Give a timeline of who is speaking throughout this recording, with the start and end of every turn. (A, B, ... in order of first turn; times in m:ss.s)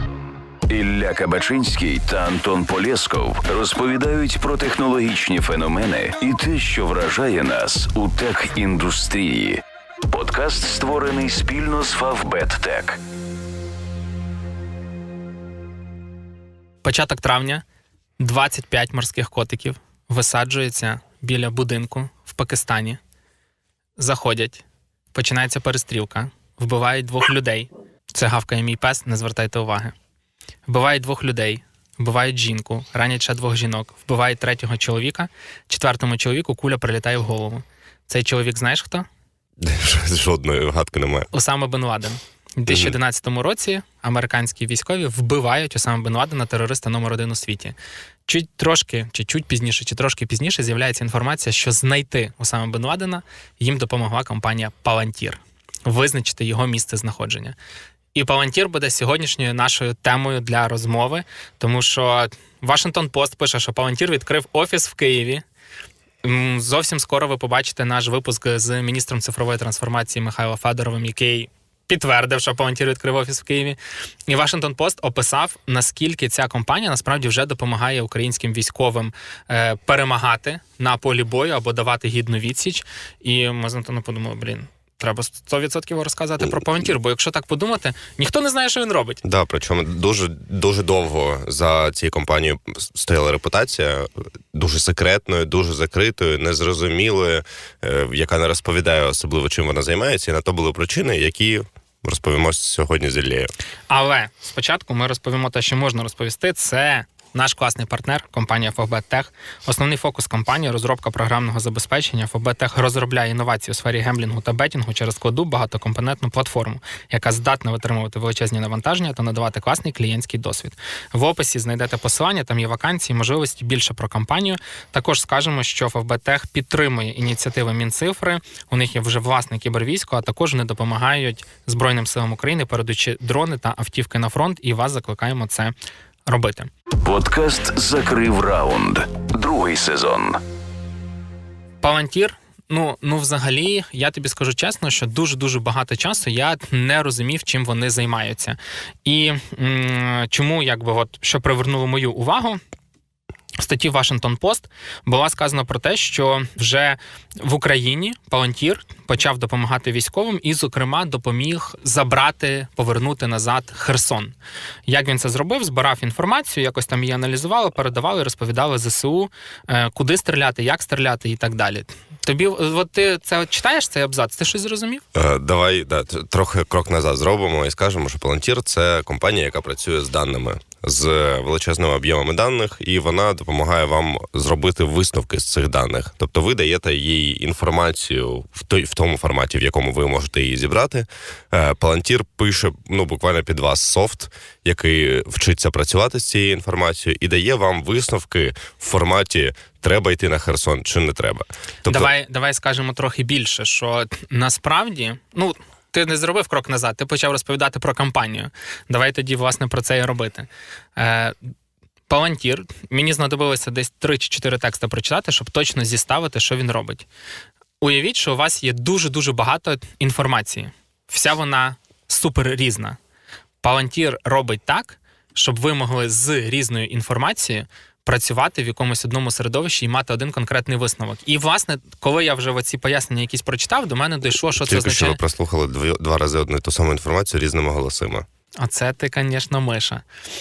0:00.7-0:13.0 A
0:16.8-0:17.6 B
0:18.2-0:23.0 B
0:24.0-0:29.9 B
0:30.6-0:39.0 B
0:39.6-0:41.3 C
0:41.3-0:47.7 B
0:42.7-0:43.0 C
0:48.3-0:57.6 B
0:58.1-1:05.4 B
1:06.2-1:29.2 B
1:29.2-1:43.5 C
1:43.9-2:15.7 B
2:16.2-2:16.7 B
2:17.0-2:20.4 A
2:21.8-2:32.6 B
2:33.6-2:44.3 B
2:44.9-2:55.0 B
2:55.1-3:22.1 C
3:21.8-3:31.4 B
3:32.1-3:37.1 B
3:37.8-3:43.0 B
3:43.6-3:55.2 B
3:54.5-3:58.2 C
3:58.6-4:00.0 B